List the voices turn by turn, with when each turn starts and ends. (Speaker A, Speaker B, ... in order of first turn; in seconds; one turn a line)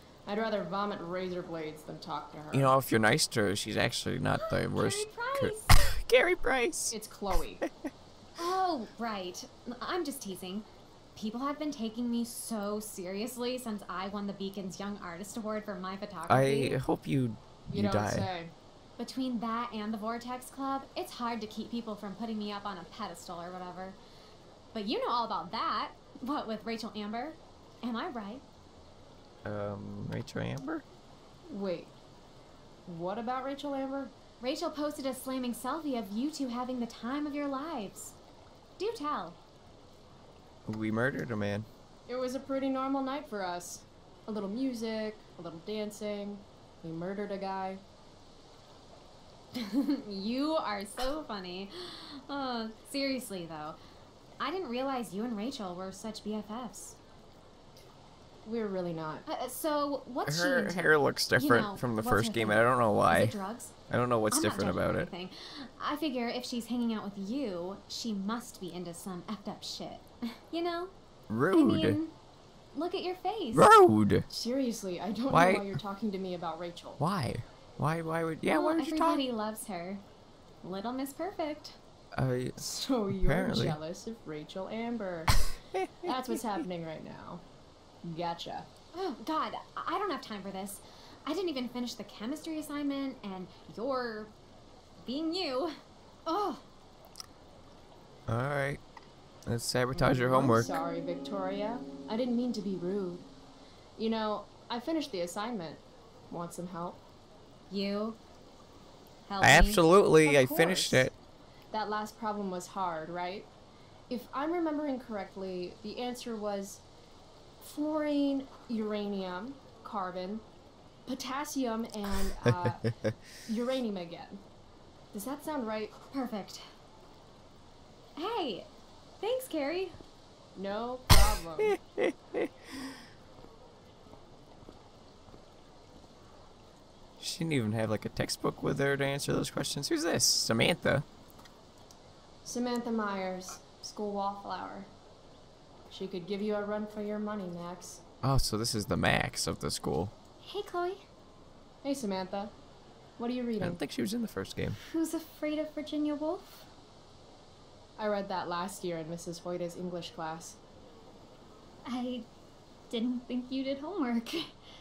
Speaker A: 0.2-2.7
Speaker B: 2.5-6.9
Speaker C: 4.7-5.7
Speaker A: 6.9-7.6
Speaker C: 8.4-16.8
Speaker B: 16.3-18.3
Speaker A: 17.7-18.5
Speaker C: 19.0-24.0
Speaker C: 24.7-28.4
Speaker B: 29.4-30.8
Speaker A: 31.5-31.9
Speaker A: 32.9-34.1
Speaker C: 34.4-38.1
Speaker C: 38.8-39.4
Speaker B: 40.6-41.7
Speaker A: 42.1-47.8
Speaker C: 49.5-53.8
Speaker C: 54.4-57.0
Speaker A: 58.4-59.2
Speaker C: 59.3-63.8
Speaker B: 60.2-63.4
Speaker B: 63.9-65.1
Speaker C: 64.3-70.9
Speaker B: 71.3-72.0
Speaker C: 71.5-72.1
Speaker C: 72.7-73.7
Speaker B: 73.5-74.2
Speaker A: 74.3-77.0
Speaker B: 75.3-75.7
Speaker B: 77.0-79.2
Speaker C: 78.5-80.0
Speaker C: 80.6-81.8
Speaker B: 82.1-83.8
Speaker A: 82.6-85.3
Speaker A: 86.0-87.4
Speaker A: 88.0-88.7
Speaker C: 88.9-94.3
Speaker C: 95.0-95.7
Speaker C: 96.3-96.6
Speaker B: 98.3-98.8
Speaker B: 99.4-100.8
Speaker A: 100.0-103.3
Speaker A: 104.0-107.0
Speaker C: 107.7-108.2
Speaker C: 109.2-109.8
Speaker B: 109.4-111.1
Speaker A: 110.2-111.1
Speaker A: 111.7-113.5
Speaker A: 114.1-116.8
Speaker A: 117.6-120.4
Speaker A: 121.1-122.8
Speaker A: 123.5-124.4
Speaker A: 125.1-125.9
Speaker C: 126.1-126.6
Speaker C: 128.2-128.7
Speaker C: 129.2-129.9
Speaker A: 130.5-131.7
Speaker B: 131.7-132.6
Speaker B: 137.2-141.0
Speaker A: 142.4-144.9
Speaker A: 145.9-148.0
Speaker B: 148.2-150.1
Speaker C: 150.4-151.0
Speaker A: 151.8-152.5
Speaker A: 153.2-153.8
Speaker B: 153.6-154.8
Speaker C: 154.7-156.7
Speaker A: 158.0-160.6
Speaker C: 161.8-162.3
Speaker C: 162.9-164.6